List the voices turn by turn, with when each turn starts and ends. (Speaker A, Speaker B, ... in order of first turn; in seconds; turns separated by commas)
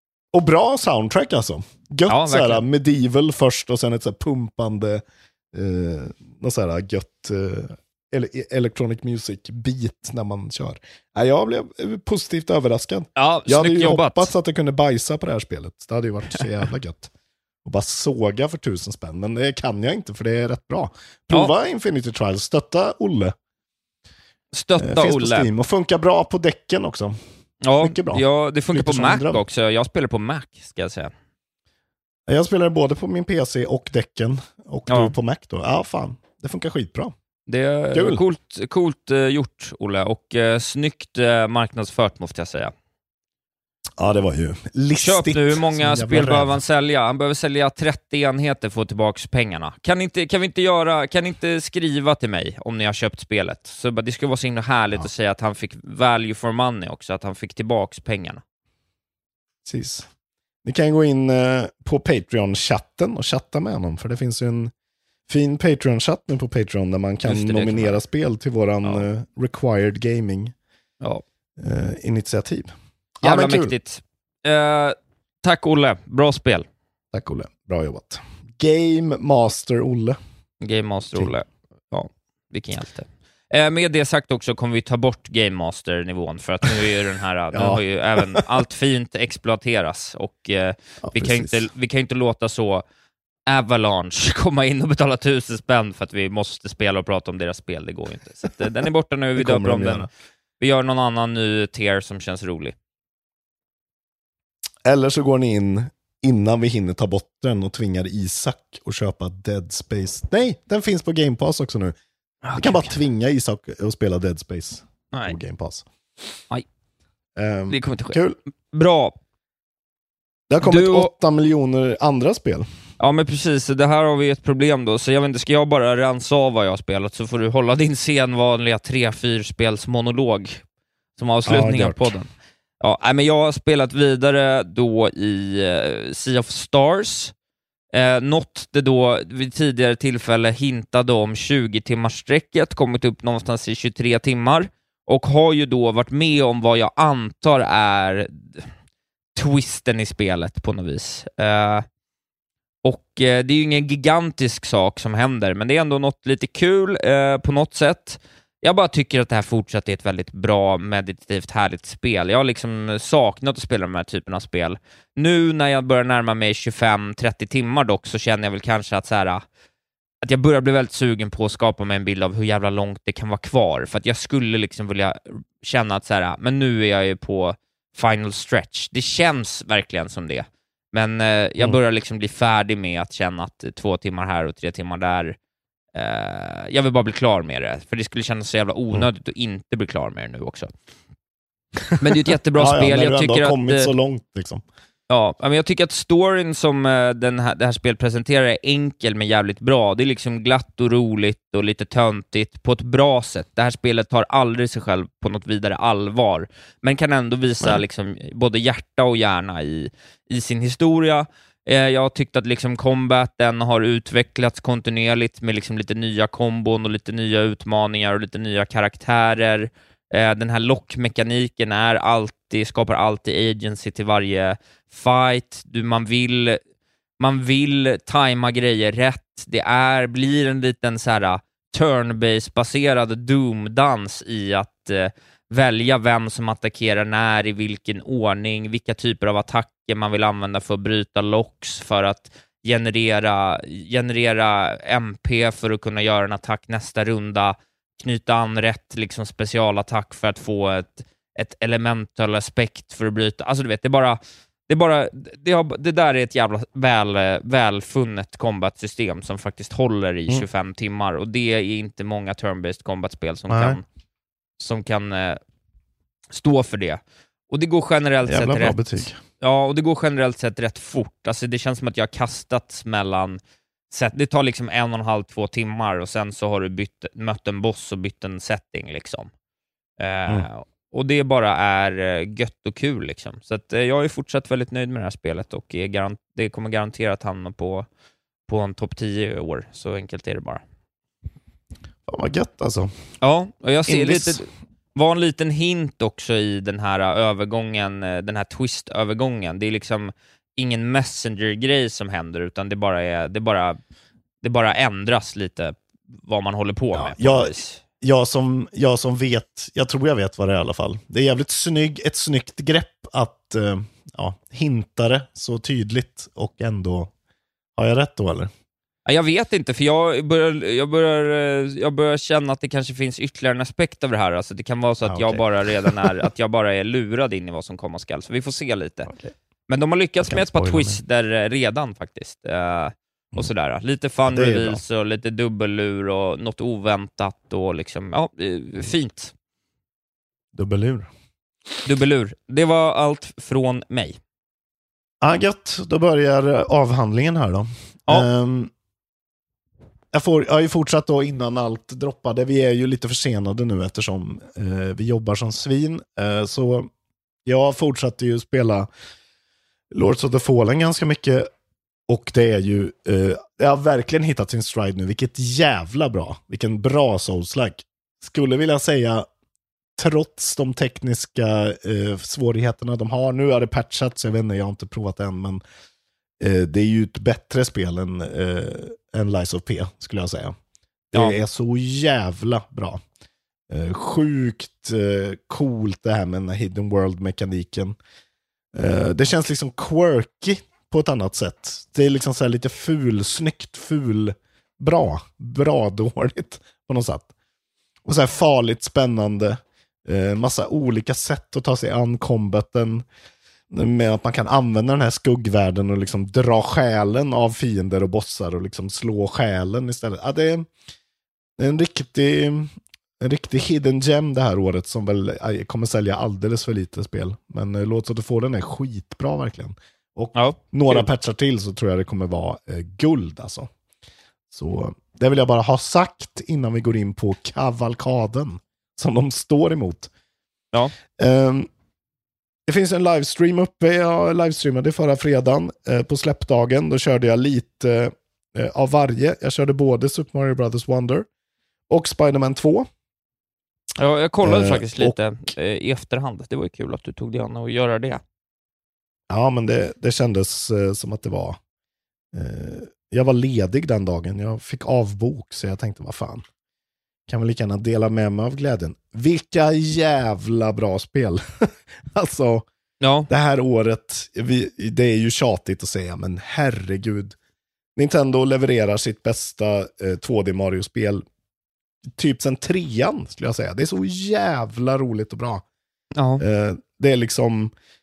Speaker A: 0.3-17.1, Speaker B: 2.1-2.6, Speaker B: 13.2-14.3, Speaker A: 17.6-23.3, Speaker B: 24.5-25.5, Speaker A: 24.8-27.2, Speaker B: 27.6-31.1, Speaker A: 27.8-29.4, Speaker A: 32.3-37.1, Speaker B: 34.9-35.1, Speaker B: 37.5-42.7, Speaker A: 37.9-38.2, Speaker A: 44.0-46.6, Speaker B: 45.0-58.4, Speaker A: 59.6-60.1, Speaker A: 60.6-64.7, Speaker A: 65.3-70.5, Speaker B: 67.2-68.0, Speaker A: 71.6-73.7, Speaker B: 73.2-76.7, Speaker A: 77.1-80.2, Speaker B: 80.6-92.8, Speaker A: 87.5-88.4, Speaker A: 91.0-91.7, Speaker B: 93.5-100.1, Speaker A: 99.3-100.1, Speaker B: 100.6-102.7, Speaker A: 104.8-112.0, Speaker B: 112.4-112.9, Speaker A: 112.5-115.8, Speaker B: 115.1-115.4, Speaker A: 117.3-118.4, Speaker B: 117.7-118.2, Speaker B: 118.7-119.2, Speaker A: 120.5-122.7, Speaker B: 120.6-121.1, Speaker B: 123.0-130.6, Speaker B: 131.2-137.3, Speaker A: 131.4-132.1, Speaker B: 137.9-148.7, Speaker B: 149.3-151.8, Speaker B: 152.8-169.4, Speaker B: 170.2-185.3, Speaker B: 185.9-190.7, Speaker A: 191.9-194.6, Speaker B: 192.0-193.9, Speaker B: 195.1-226.6, Speaker B: 227.2-263.8, Speaker A: 263.5-263.8, Speaker B: 264.6-265.4, Speaker B: 266.3-273.4, Speaker A: 268.2-269.2, Speaker B: 273.9-279.3, Speaker B: 280.0-287.9, Speaker B: 288.5-290.6, Speaker A: 292.1-292.9, Speaker B: 293.2-303.8, Speaker A: 293.9-294.4, Speaker B: 304.4-307.8, Speaker A: 306.9-317.1, Speaker A: 317.8-318.5, Speaker B: 319.1-329.1, Speaker A: 325.0-326.1, Speaker A: 329.1-329.3, Speaker B: 329.7-339.3, Speaker A: 330.2-331.0, Speaker A: 334.3-334.8, Speaker A: 340.5-341.1, Speaker B: 341.8-344.2, Speaker A: 345.2-348.7, Speaker A: 350.1-356.9, Speaker A: 357.4-358.9, Speaker A: 359.9-361.5, Speaker A: 362.1-369.2, Speaker A: 370.0-375.6, Speaker A: 376.4-380.6, Speaker A: 381.1-383.0, Speaker B: 381.1-381.4, Speaker A: 383.7-388.0, Speaker A: 388.7-397.3, Speaker A: 398.1-403.0, Speaker A: 403.7-410.7, Speaker A: 411.6-423.7, Speaker B: 420.3-421.1, Speaker A: 424.5-430.1, Speaker A: 431.2-431.7, Speaker A: 432.7-441.3, Speaker A: 441.9-442.9, Speaker B: 444.0-448.2, Speaker A: 444.4-445.2, Speaker A: 449.3-451.6, Speaker A: 452.3-456.4, Speaker A: 457.3-462.6, Speaker B: 463.0-463.3, Speaker A: 463.3-467.4, Speaker A: 467.9-471.2, Speaker A: 472.1-475.6, Speaker B: 476.1-476.4, Speaker A: 476.4-477.7